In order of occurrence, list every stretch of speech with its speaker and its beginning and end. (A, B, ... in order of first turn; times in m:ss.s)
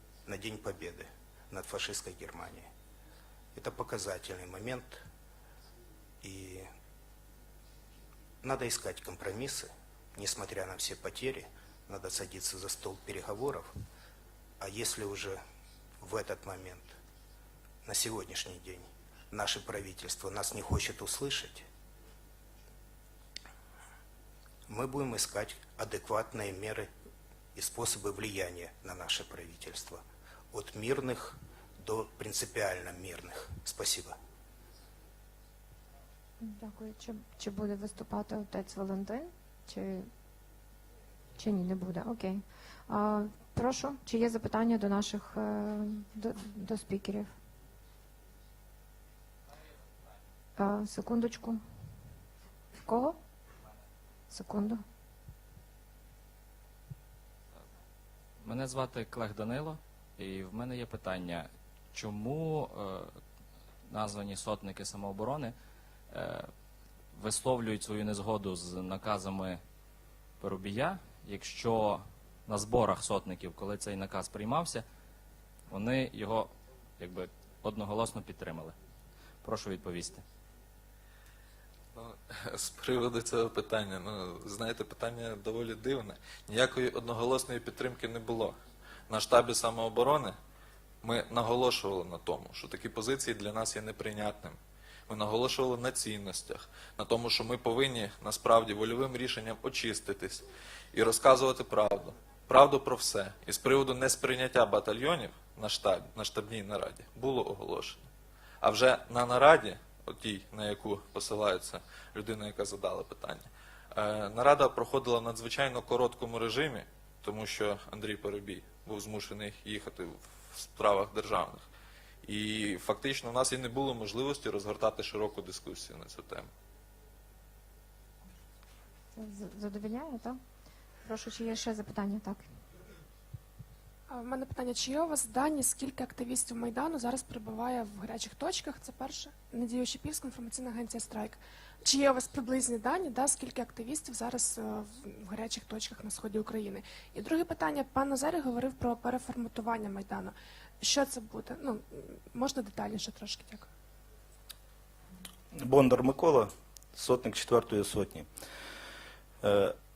0:00.3-0:02.7 A
0:03.6-0:05.0 A
0:06.2-0:06.7 A
0:08.4-0:13.7 A
0:14.6-0:15.4 A
0:16.0-0:17.0 A
0:17.9-0:21.6 A
0:24.7-0:26.9 A
0:27.6-0:34.2 A
0:36.4-0:40.1 B
0:41.4-0:47.3 B
0:50.6-0:51.6 B
0:52.8-0:53.2 B
0:54.3-0:54.8 B
0:58.4-1:03.1 C
1:03.9-1:05.5 C
1:06.1-1:06.5 C
1:07.2-1:09.6 C
1:10.4-1:14.8 C
1:15.7-1:18.7 C
1:19.4-1:20.2 C
1:22.0-1:28.6 D
1:29.1-1:30.4 D
1:31.0-1:34.6 D
1:35.1-1:48.1 D
1:48.6-2:01.6 D
2:02.2-2:06.5 D
2:09.2-2:10.4 B
2:11.0-2:12.5 B
2:14.1-2:33.7 E
2:35.6-2:38.3 F
2:39.4-2:39.8 F